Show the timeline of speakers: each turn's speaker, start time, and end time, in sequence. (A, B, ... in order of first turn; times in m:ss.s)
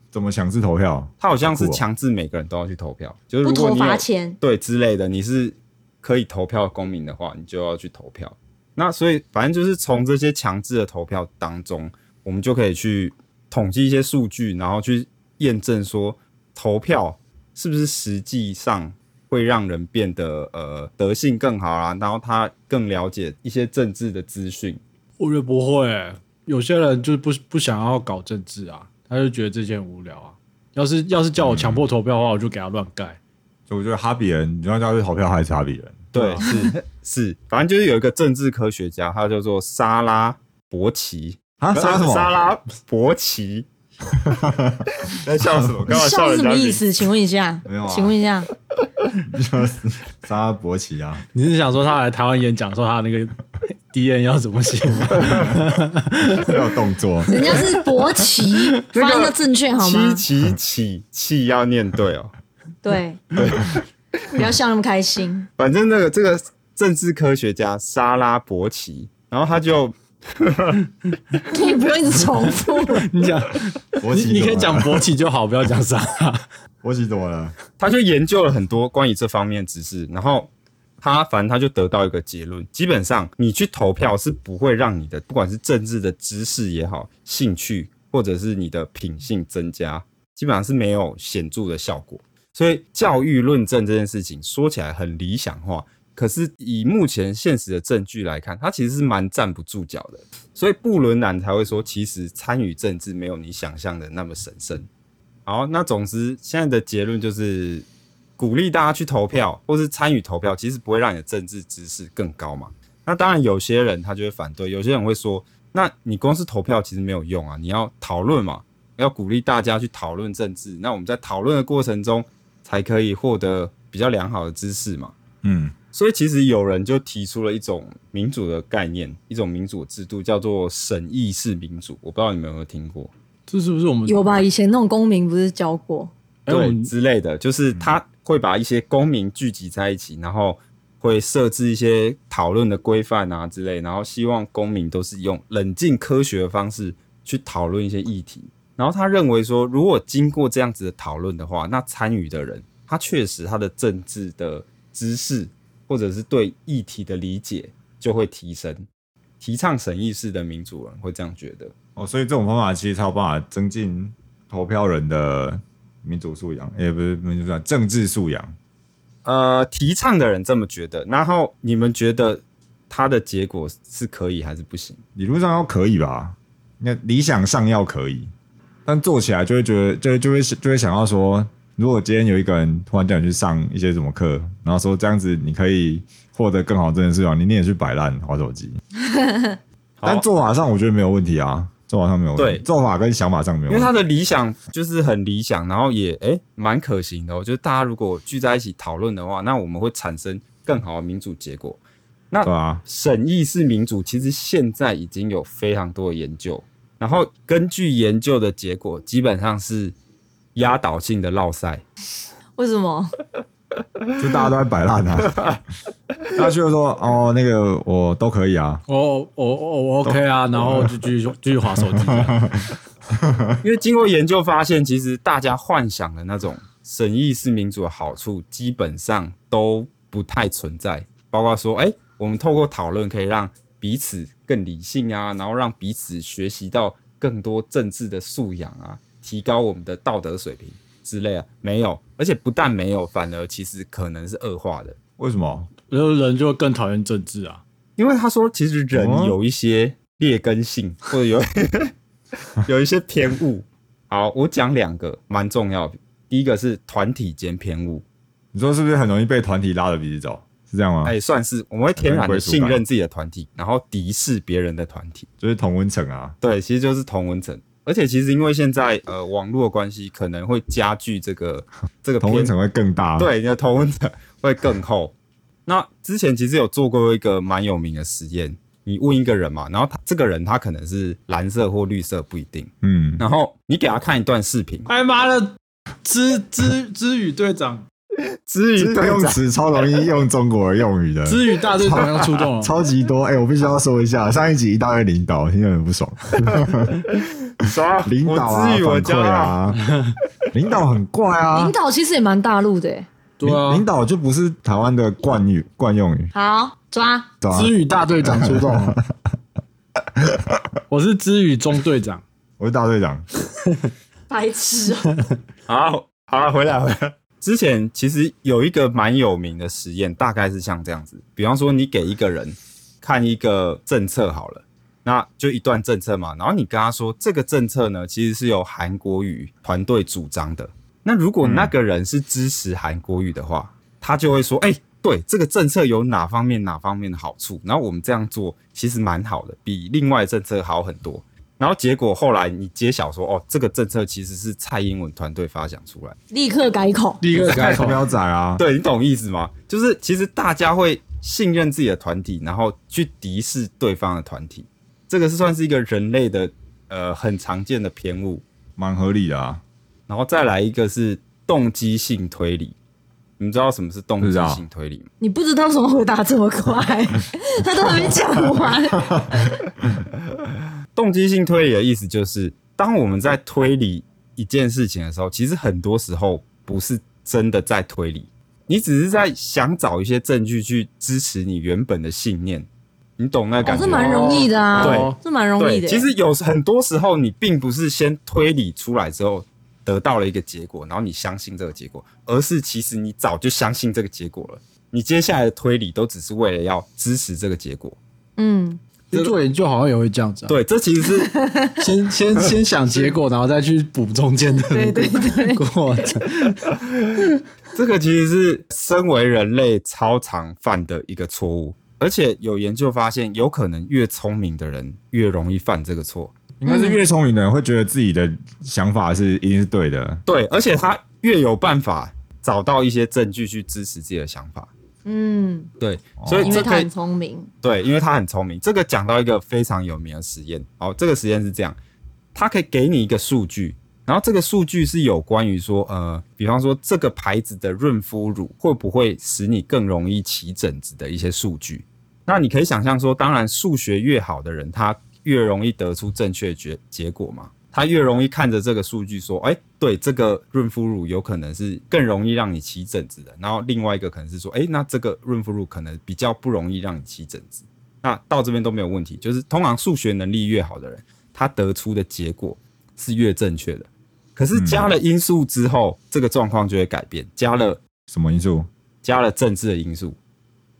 0:00.1-0:01.8 A
0:01.2-0:24.8 B
0:03.4-0:04.4 C
0:25.2-0:33.2 D
0:31.4-0:31.8 A
0:33.7-0:36.1 A
0:36.1-0:43.7 B
0:41.6-0:42.3 A
0:44.2-0:44.8 A
0:45.0-0:46.8 B
0:45.9-0:48.5 C
0:47.6-0:48.2 A
0:49.2-0:51.2 A
0:51.3-0:53.4 D
0:53.9-0:56.6 D
0:56.4-0:57.3 A
0:57.3-1:00.2 C
0:57.3-0:57.7 D
0:58.9-1:02.3 B
1:02.8-1:03.2 C
1:03.4-1:03.8 B
1:04.3-1:05.5 C
1:05.6-1:10.8 B
1:11.5-1:13.1 C
1:13.0-1:16.4 D
1:14.0-1:15.0 A
1:16.8-1:17.5 A
1:17.8-1:20.5 B
1:21.0-1:44.9 B
1:45.4-1:47.9 B
1:48.4-2:05.1 B
2:05.4-2:05.7 A
2:05.9-2:13.1 B
2:13.5-2:14.3 D
2:14.1-2:16.1 C
2:16.5-2:16.9 D
2:16.5-2:38.9 B
2:39.4-2:41.7 B
2:42.0-2:48.5 A
2:49.2-2:55.0 B
2:55.2-2:58.3 A
2:58.8-3:08.8 A
3:09.1-3:09.5 C
3:10.0-3:10.2 B
3:10.0-3:13.9 A
3:12.4-3:12.6 B
3:13.7-3:21.8 B
3:22.3-3:29.9 B
3:22.4-3:22.8 A
3:30.5-3:31.8 B
3:32.6-3:33.1 C
3:34.2-3:35.4 A
3:36.4-3:38.8 A
3:38.9-3:42.4 D
3:40.0-3:41.0 A
3:41.8-3:43.6 A
3:43.6-4:05.0 B
4:05.2-4:05.7 A
4:05.9-4:07.6 D
4:08.0-4:11.9 B
4:08.9-4:09.4 A
4:12.6-4:18.0 B
4:18.5-4:21.1 A
4:21.0-4:25.3 B
4:22.0-4:22.8 A
4:25.4-4:26.4 A
4:26.4-4:32.5 B
4:32.2-4:33.3 A
4:33.2-4:35.1 B
4:35.7-4:44.9 B
4:42.8-4:43.2 A
4:44.9-4:47.8 D
4:48.5-4:49.4 B
4:48.8-4:57.0 A
4:51.2-4:52.7 D
4:57.6-4:59.6 B
4:58.0-4:59.8 A
5:00.5-5:01.7 A
5:01.5-5:03.1 C
5:03.4-5:03.8 D
5:03.4-5:06.3 A
5:06.3-5:07.3 C
5:07.4-5:09.0 A
5:07.5-5:09.0 D
5:10.2-5:10.6 A
5:10.9-5:12.2 D
5:12.6-5:13.2 A
5:14.3-5:15.2 C
5:15.7-5:46.2 B
5:31.4-5:31.7 A
5:46.3-5:47.2 C
5:47.2-5:48.0 D
5:47.4-5:47.9 B
5:47.4-5:48.6 A
5:48.6-5:58.4 B
5:58.8-5:59.6 A
6:00.1-6:02.8 B
6:03.4-6:05.1 B
6:04.2-6:04.6 A
6:05.2-6:09.6 C
6:11.0-6:38.0 B
6:23.6-6:26.1 C
6:23.8-6:25.2 D
6:38.4-6:38.8 C
6:39.1-6:40.6 D
6:40.5-6:41.3 B
6:41.2-6:41.8 C
6:41.8-6:46.7 D
6:42.4-6:43.1 B
6:44.7-6:45.6 C
6:47.7-6:56.3 B
6:56.6-7:00.2 A
6:56.6-6:57.0 C
7:00.2-7:04.7 B
7:05.0-7:05.7 C
7:05.8-7:06.9 B
7:06.2-7:06.6 A
7:06.4-7:07.5 C
7:07.6-7:11.8 B
7:12.3-7:47.8 B
7:44.5-7:44.9 A
7:48.1-7:48.7 A
7:49.0-7:50.2 B